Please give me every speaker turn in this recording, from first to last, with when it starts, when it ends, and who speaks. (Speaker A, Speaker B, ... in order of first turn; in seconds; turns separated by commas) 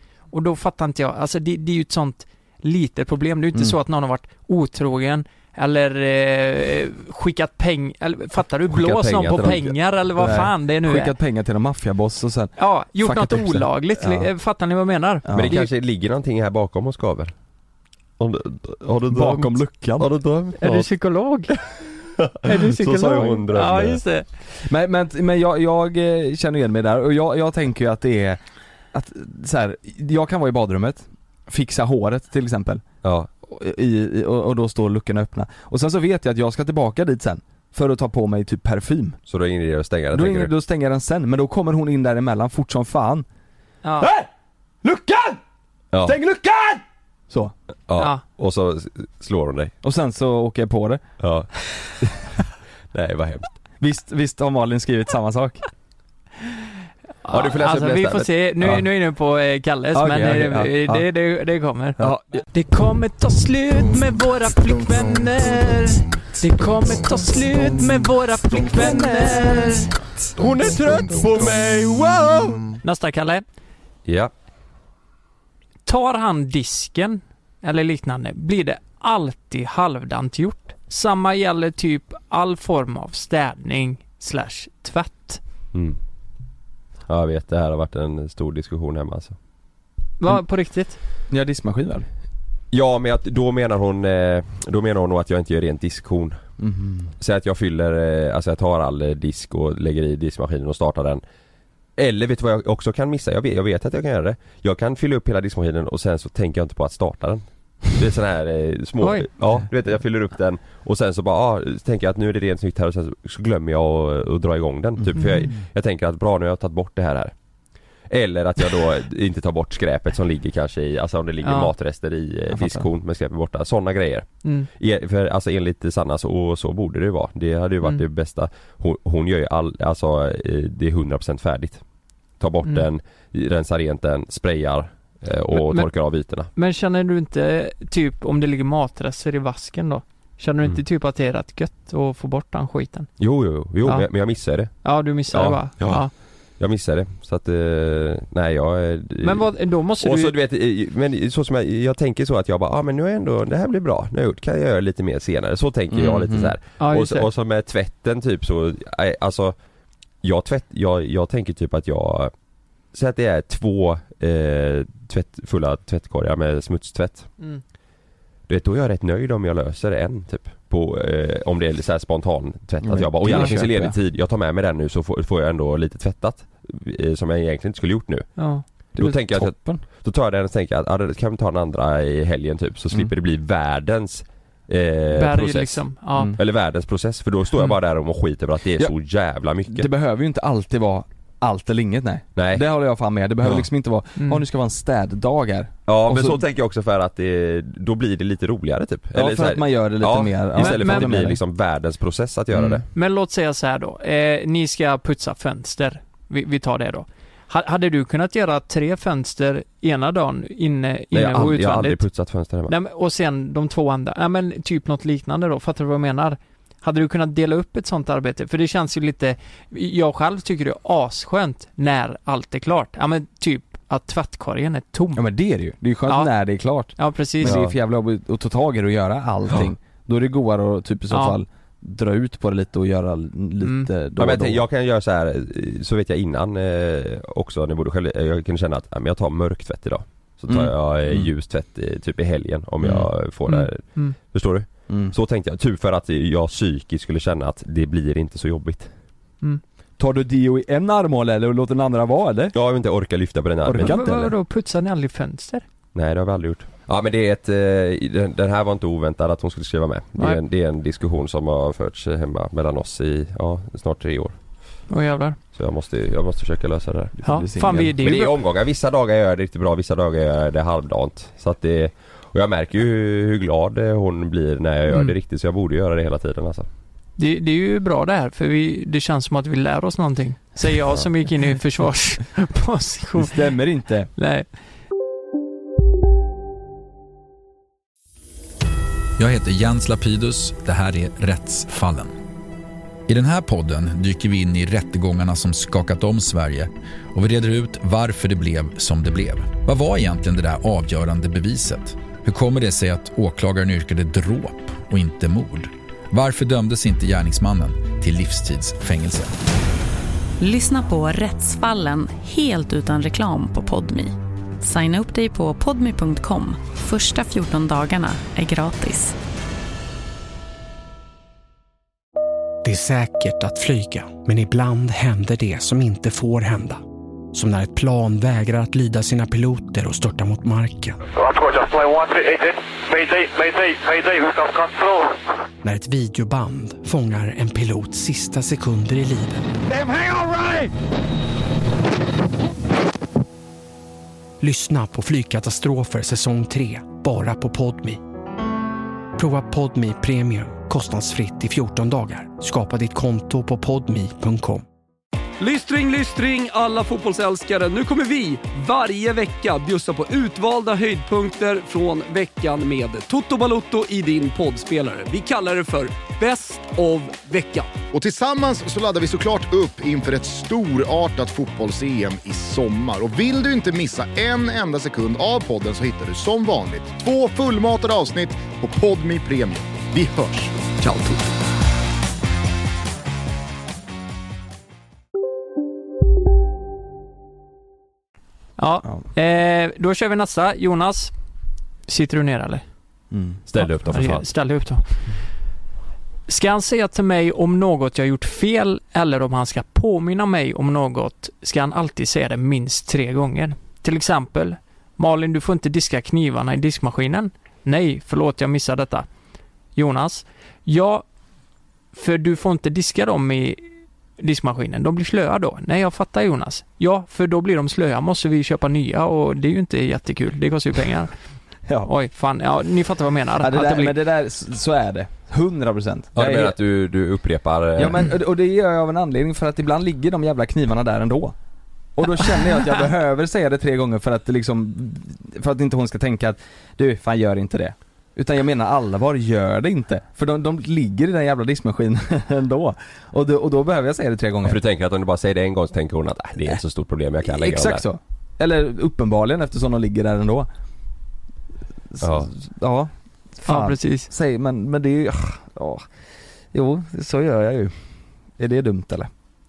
Speaker A: 0.3-11.1, Speaker B: 8.7-14.3, Speaker A: 12.6-15.7, Speaker B: 15.2-15.6, Speaker C: 15.3-17.3, Speaker C: 18.2-20.9, Speaker B: 19.1-20.1, Speaker A: 20.6-21.5, Speaker C: 22.2-24.0, Speaker A: 22.4-24.3, Speaker B: 24.6-28.4, Speaker B: 28.9-32.8, Speaker C: 33.0-33.3, Speaker B: 33.4-39.2, Speaker C: 39.3-40.5, Speaker B: 40.1-43.3, Speaker A: 43.8-44.1, Speaker B: 44.0-44.3, Speaker B: 44.8-45.4, Speaker C: 45.9-46.2, Speaker B: 46.0-47.5, Speaker C: 47.9-49.7, Speaker B: 49.8-51.0, Speaker C: 51.2-51.5, Speaker C: 52.0-52.3, Speaker C: 52.9-53.5, Speaker B: 53.8-55.6, Speaker A: 57.2-69.9, Speaker C: 57.3-58.8, Speaker B: 59.9-61.0, Speaker C: 70.4-72.7, Speaker A: 72.8-73.4, Speaker C: 74.1-74.3, Speaker A: 75.9-85.4, Speaker C: 87.1-89.4, Speaker A: 90.2-91.0, Speaker B: 91.3-92.1, Speaker C: 92.7-96.4, Speaker B: 96.6-97.1, Speaker C: 97.2-101.2, Speaker C: 102.0-117.3, Speaker A: 109.0-109.3, Speaker B: 115.0-115.5, Speaker A: 115.2-115.5, Speaker C: 118.1-131.8, Speaker A: 121.4-121.7, Speaker B: 122.5-122.9, Speaker C: 132.4-136.5, Speaker A: 135.6-135.9, Speaker A: 136.6-143.1, Speaker C: 143.2-159.6, Speaker A: 144.8-146.1, Speaker A: 149.2-150.3, Speaker B: 155.9-156.6, Speaker A: 156.8-157.3, Speaker C: 160.2-162.3, Speaker C: 162.9-167.3, Speaker C: 168.5-178.3, Speaker B: 172.8-174.0, Speaker A: 178.4-179.2, Speaker C: 178.9-185.8, Speaker B: 179.0-179.8, Speaker A: 185.1-186.3, Speaker C: 186.4-189.9, Speaker B: 189.7-196.4, Speaker C: 192.4-192.6, Speaker A: 194.2-194.4, Speaker C: 195.9-202.8, Speaker B: 199.1-201.4, Speaker A: 200.6-201.2, Speaker A: 202.8-212.0, Speaker C: 211.1-212.7, Speaker A: 212.7-225.2, Speaker B: 225.1-234.6, Speaker A: 226.9-227.6, Speaker C: 227.4-227.8, Speaker A: 231.1-231.4, Speaker A: 233.6-233.9, Speaker C: 234.2-248.9, Speaker B: 240.5-241.3, Speaker B: 242.8-243.1, Speaker A: 243.5-244.2, Speaker B: 244.9-245.2, Speaker B: 250.0-252.6, Speaker C: 252.5-253.9, Speaker B: 253.7-254.3, Speaker A: 253.8-255.6, Speaker C: 255.9-264.4, Speaker A: 264.9-265.4, Speaker C: 265.5-276.7, Speaker B: 267.2-267.9, Speaker A: 267.2-268.3, Speaker A: 277.2-283.5, Speaker B: 283.2-284.1, Speaker A: 284.2-284.5, Speaker D: 289.2-292.1, Speaker D: 293.1-309.3, Speaker E: 310.4-319.1, Speaker F: 322.6-326.8, Speaker F: 327.3-331.0, Speaker G: 331.1-335.2, Speaker F: 335.6-339.5, Speaker F: 344.4-348.0, Speaker F: 349.2-354.6, Speaker H: 355.4-367.7, Speaker I: 367.9-381.1, Speaker A: 388.6-391.1, Speaker A: 391.9-392.6, Speaker B: 393.1-393.4, Speaker C: 393.5-394.3, Speaker A: 393.6-394.9, Speaker A: 396.3-409.1, Speaker A: 409.8-411.0, Speaker A: 411.9-413.6, Speaker A: 414.2-421.1, Speaker B: 421.7-421.9, Speaker A: 421.9-423.9, Speaker B: 423.4-426.6, Speaker C: 426.2-428.1, Speaker B: 427.8-431.4, Speaker B: 432.0-444.6, Speaker C: 444.4-447.9, Speaker B: 447.2-450.5, Speaker B: 451.9-455.9, Speaker C: 452.0-452.3, Speaker A: 453.4-454.1, Speaker B: 456.5-457.7, Speaker B: 458.4-459.1